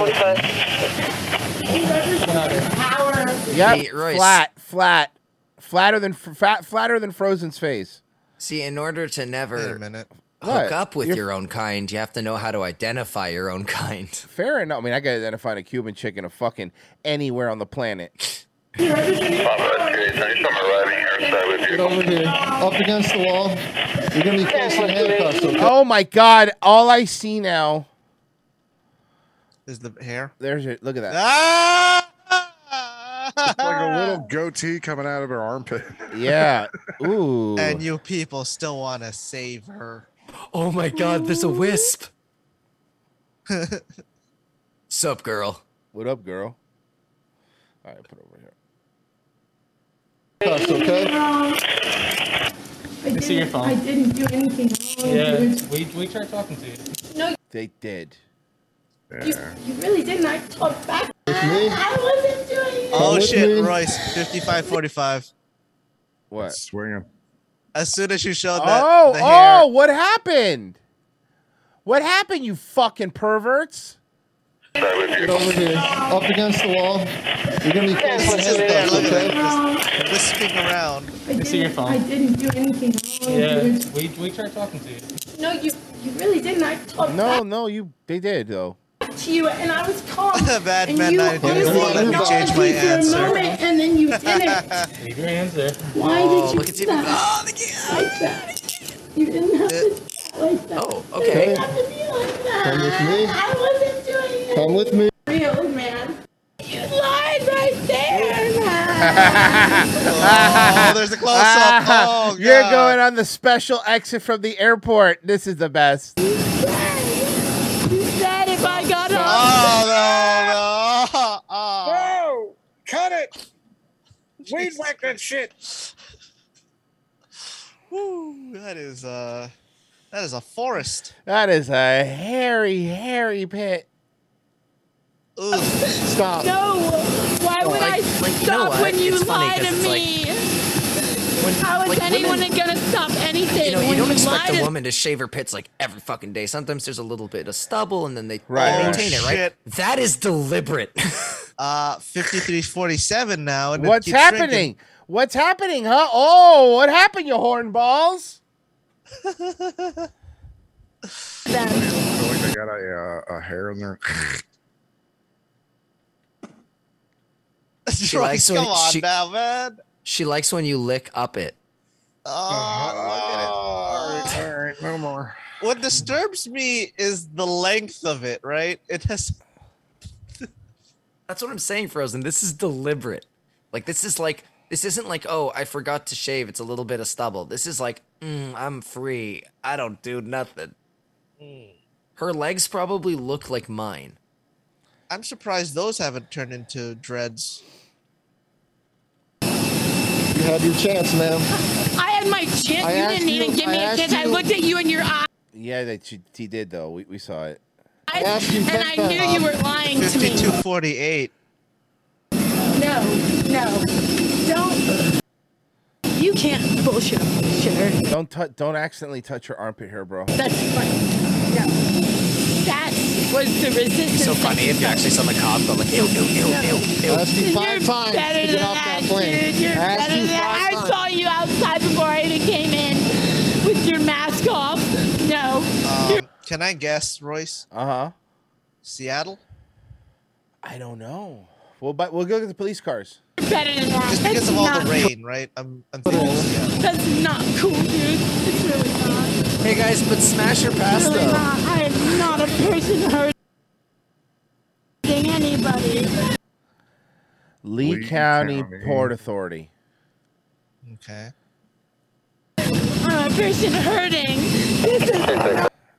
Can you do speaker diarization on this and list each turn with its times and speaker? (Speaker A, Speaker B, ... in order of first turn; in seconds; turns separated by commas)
Speaker A: 1.7-3.4, Speaker B: 2.3-2.7, Speaker C: 3.5-8.0, Speaker D: 3.6-4.4, Speaker D: 8.4-9.8, Speaker E: 9.5-10.1, Speaker D: 10.4-14.2, Speaker C: 10.4-11.2, Speaker C: 14.3-18.1, Speaker A: 18.8-20.5, Speaker F: 21.7-25.7, Speaker C: 25.6-27.9, Speaker E: 29.6-30.3, Speaker C: 30.4-31.2, Speaker E: 31.1-34.2, Speaker G: 33.4-36.5, Speaker C: 36.1-37.8, Speaker E: 37.6-40.1, Speaker D: 40.5-42.1, Speaker A: 40.9-41.9, Speaker E: 43.5-43.8, Speaker D: 44.9-45.6, Speaker C: 45.9-46.5, Speaker C: 47.8-48.5, Speaker F: 50.4-51.1, Speaker A: 50.4-51.6, Speaker A: 53.0-55.6, Speaker B: 53.1-53.7, Speaker B: 55.0-56.8, Speaker C: 57.5-58.2, Speaker G: 59.1-59.6, Speaker A: 59.2-63.4, Speaker F: 61.3-61.8, Speaker E: 62.9-65.3, Speaker F: 62.9-63.8, Speaker C: 66.3-66.6, Speaker G: 66.4-67.1, Speaker E: 67.7-69.7, Speaker C: 68.5-70.8, Speaker C: 71.8-74.0, Speaker F: 75.2-79.4, Speaker E: 78.2-81.1, Speaker A: 79.0-79.8, Speaker A: 81.2-83.8, Speaker B: 81.4-82.0, Speaker B: 83.3-85.1, Speaker A: 85.3-87.4, Speaker C: 87.0-88.8, Speaker A: 89.1-94.6, Speaker E: 90.3-93.6, Speaker F: 91.4-92.5, Speaker B: 91.6-92.1, Speaker E: 94.1-94.9, Speaker B: 95.0-95.8, Speaker A: 95.9-97.3, Speaker D: 96.0-98.0, Speaker A: 97.8-110.0, Speaker D: 100.8-101.5, Speaker F: 101.3-101.7, Speaker F: 102.6-103.3, Speaker F: 104.5-105.1, Speaker C: 109.0-116.1, Speaker E: 110.0-113.0, Speaker A: 116.2-119.8, Speaker E: 118.6-122.2, Speaker H: 121.8-123.3, Speaker E: 124.5-125.2, Speaker H: 124.5-125.5, Speaker E: 127.9-129.5, Speaker E: 130.1-131.1, Speaker C: 131.2-133.8, Speaker E: 135.4-135.8, Speaker A: 135.5-140.5, Speaker F: 136.1-136.5, Speaker D: 137.7-140.1, Speaker D: 141.4-142.5, Speaker A: 141.4-144.7, Speaker D: 143.6-151.4, Speaker C: 148.5-149.2, Speaker E: 148.6-149.5, Speaker E: 151.6-154.7, Speaker C: 153.8-158.4, Speaker E: 159.2-160.1, Speaker A: 161.5-161.9, Speaker G: 161.5-164.3, Speaker E: 167.9-169.8, Speaker D: 168.1-169.1, Speaker D: 170.0-171.6, Speaker E: 172.2-174.3, Speaker G: 172.5-175.3, Speaker H: 173.9-174.2, Speaker E: 175.6-179.4, Speaker D: 181.3-190.7, Speaker E: 191.4-191.7, Speaker D: 192.2-194.2, Speaker E: 195.1-197.6, Speaker F: 200.3-201.5, Speaker A: 201.9-205.3, Speaker F: 202.8-204.5, Speaker C: 205.5-207.6, Speaker A: 208.1-210.6, Speaker F: 208.1-209.5, Speaker E: 209.2-211.3, Speaker A: 212.7-214.9, Speaker A: 216.1-218.0, Speaker C: 218.1-220.3, Speaker A: 220.3-221.7, Speaker A: 222.5-225.1, Speaker D: 224.1-227.3, Speaker A: 226.0-233.1, Speaker F: 227.1-231.0, Speaker A: 233.6-236.2, Speaker E: 235.8-237.7, Speaker C: 237.7-238.1, Speaker E: 238.8-239.4, Speaker C: 240.6-243.2, Speaker A: 243.4-245.1, Speaker E: 244.1-246.8, Speaker F: 246.1-246.5, Speaker A: 246.1-249.4, Speaker D: 249.6-251.5, Speaker A: 250.8-253.3, Speaker A: 255.0-256.2, Speaker C: 257.6-259.7, Speaker G: 257.8-259.1, Speaker E: 260.8-261.3, Speaker A: 263.0-265.7